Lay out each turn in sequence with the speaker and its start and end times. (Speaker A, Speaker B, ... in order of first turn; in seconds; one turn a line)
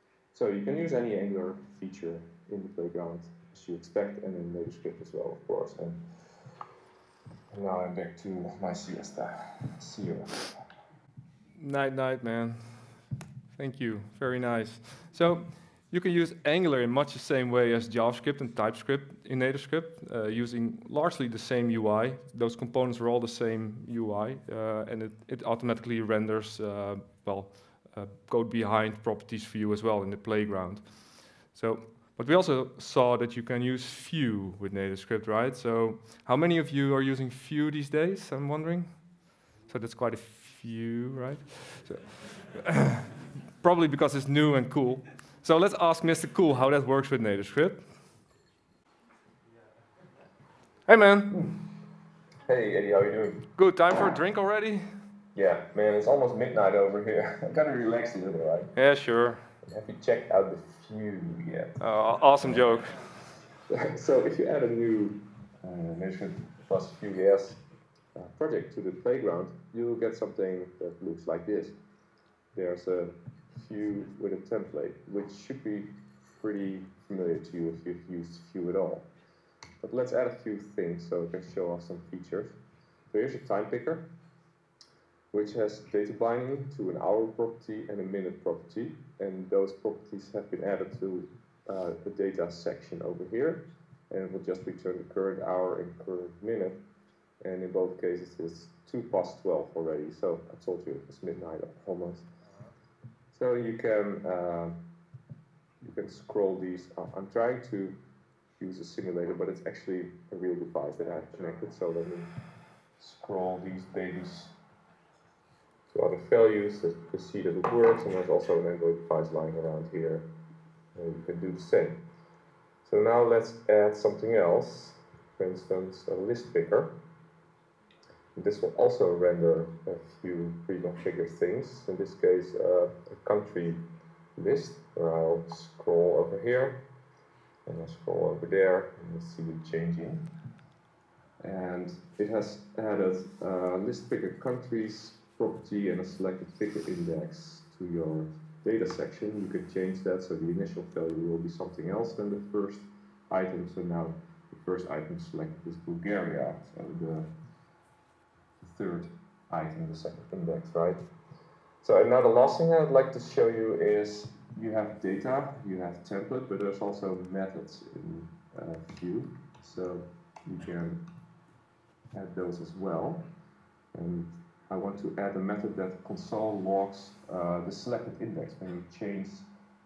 Speaker A: 0.3-6.0
Speaker A: 7.5-10.5
Speaker B: 11.6-13.0
Speaker B: 13.5-47.8
Speaker B: 50.9-51.4
Speaker A: 51.3-51.6
Speaker A: 52.4-53.5
Speaker B: 53.5-54.9
Speaker A: 55.3-58.7
Speaker B: 58.7-59.5
Speaker A: 59.6-61.8
Speaker B: 61.8-63.2
Speaker A: 62.4-62.7
Speaker A: 63.7-67.6
Speaker A: 68.1-71.8
Speaker A: 72.5-79.1
Speaker A: 79.8-82.6
Speaker A: 83.1-84.1
Speaker A: 85.3-96.8
Speaker A: 97.4-102.2
Speaker A: 103.3-104.8
Speaker A: 105.8-108.0
Speaker A: 108.6-112.3
Speaker A: 113.0-114.5
Speaker A: 115.9-120.2
Speaker A: 120.9-122.0
Speaker A: 122.8-127.0
Speaker A: 128.3-136.8
Speaker A: 137.7-140.3
Speaker A: 141.4-157.3
Speaker A: 158.6-161.0
Speaker A: 161.8-171.0
Speaker A: 172.1-173.3
Speaker A: 173.9-179.5